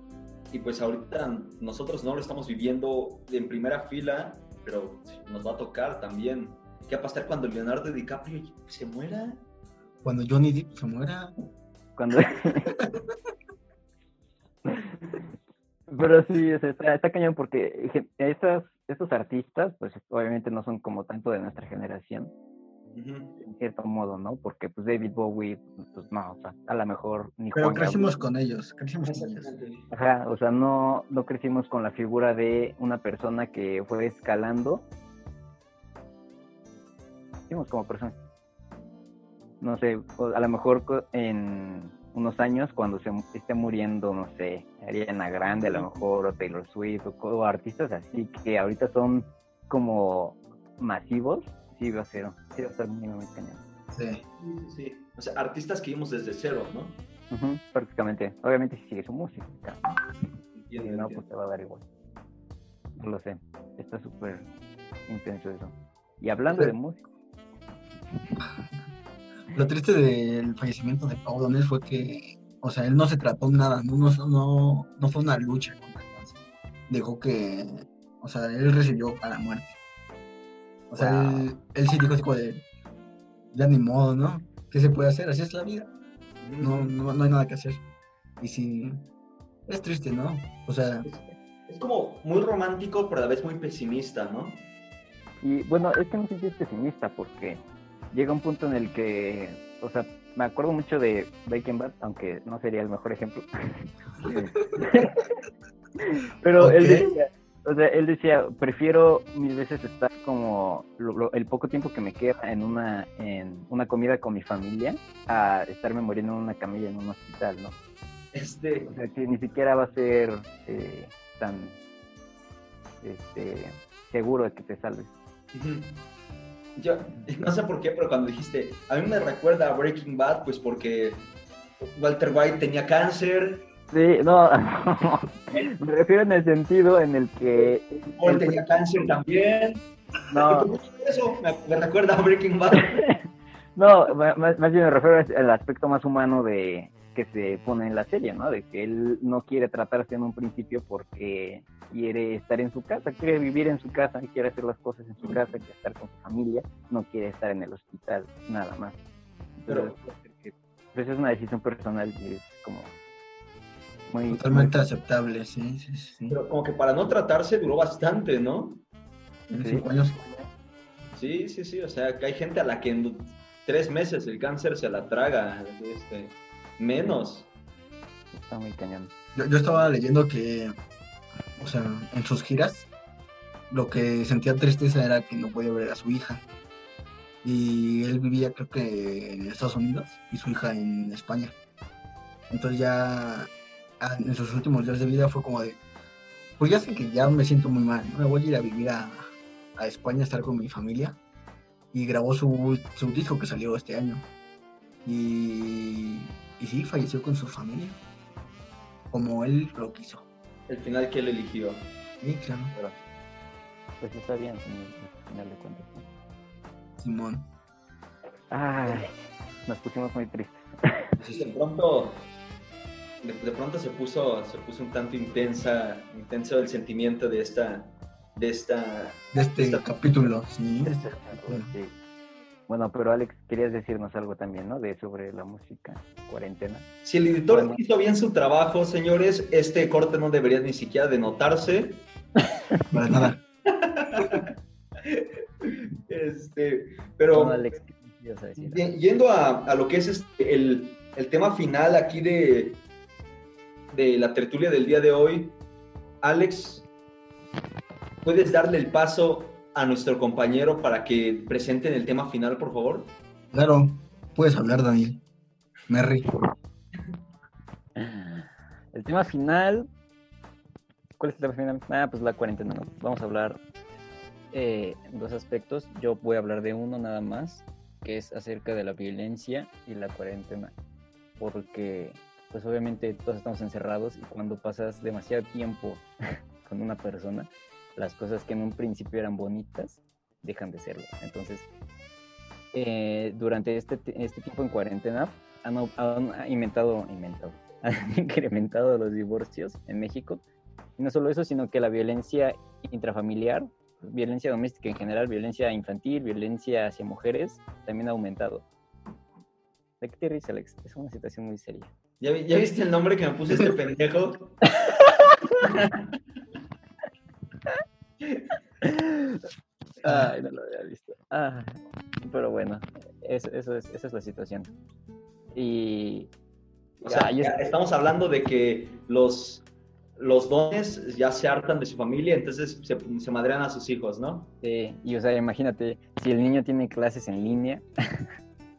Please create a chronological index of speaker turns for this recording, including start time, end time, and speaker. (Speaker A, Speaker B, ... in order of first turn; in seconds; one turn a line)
Speaker A: 0.5-9.4
Speaker B: 10.0-11.3
Speaker C: 12.0-12.7
Speaker C: 14.7-15.1
Speaker C: 15.9-22.3
Speaker A: 22.9-23.4
Speaker C: 23.4-28.2
Speaker B: 27.5-29.6
Speaker A: 29.1-29.9
Speaker C: 29.9-34.9
Speaker C: 37.5-38.1
Speaker C: 39.6-53.6
Speaker A: 45.5-46.0
Speaker B: 53.9-54.2
Speaker A: 54.4-57.0
Speaker C: 57.3-59.8
Speaker A: 60.5-61.2
Speaker C: 60.8-61.8
Speaker C: 63.0-64.5
Speaker C: 65.1-67.0
Speaker B: 69.5-76.3
Speaker B: 76.9-79.8
Speaker B: 80.9-82.6
Speaker A: 80.9-81.5
Speaker B: 83.5-85.9
Speaker A: 86.4-86.9
Speaker B: 86.6-87.8
Speaker B: 88.4-89.0
Speaker B: 89.7-91.1
Speaker A: 91.0-94.7
Speaker C: 95.4-105.3
Speaker C: 106.0-117.7
Speaker B: 106.6-107.1
Speaker A: 118.3-118.9
Speaker C: 118.8-121.8
Speaker C: 123.0-125.1
Speaker A: 125.5-126.0
Speaker A: 126.8-131.3
Speaker A: 131.9-133.7
Speaker C: 133.9-138.8
Speaker A: 137.5-143.0
Speaker C: 140.3-140.7
Speaker C: 143.8-159.0
Speaker C: 159.6-162.9
Speaker A: 159.7-159.9
Speaker C: 164.1-164.7
Speaker B: 164.3-166.4
Speaker A: 166.3-168.8
Speaker B: 169.5-170.2
Speaker C: 169.5-170.5
Speaker A: 171.1-177.5
Speaker C: 178.3-179.1
Speaker B: 179.3-180.7
Speaker B: 181.6-182.9
Speaker B: 183.7-186.4
Speaker B: 187.4-191.5
Speaker B: 192.5-195.8
Speaker B: 196.6-201.2
Speaker B: 201.9-204.2
Speaker B: 205.0-208.0
Speaker B: 209.1-210.2
Speaker A: 210.7-211.9
Speaker B: 212.2-212.7
Speaker C: 214.0-216.1
Speaker B: 217.0-217.5
Speaker C: 218.5-221.1
Speaker B: 221.2-221.6
Speaker A: 221.3-222.2
Speaker A: 223.2-230.3
Speaker B: 229.3-231.7
Speaker C: 230.8-231.9
Speaker C: 232.7-236.9
Speaker A: 237.0-242.0
Speaker C: 237.5-237.8
Speaker B: 242.9-243.4
Speaker A: 243.7-244.5
Speaker A: 245.0-247.7
Speaker C: 247.3-249.0
Speaker A: 248.6-252.8
Speaker A: 253.9-255.6
Speaker A: 256.2-256.9
Speaker A: 258.2-263.1
Speaker B: 263.5-265.2
Speaker B: 265.9-266.3
Speaker C: 267.9-269.9
Speaker C: 271.2-273.6
Speaker C: 274.5-280.7
Speaker C: 281.4-286.1
Speaker C: 286.6-291.7
Speaker C: 292.7-300.4
Speaker C: 301.0-308.6
Speaker C: 310.0-311.9
Speaker A: 312.2-314.6
Speaker A: 315.6-316.0
Speaker C: 318.8-319.4
Speaker C: 320.0-324.7
Speaker B: 320.0-320.3
Speaker C: 325.5-326.3
Speaker C: 327.0-327.7
Speaker A: 327.0-329.6
Speaker A: 330.2-334.5
Speaker C: 334.6-338.3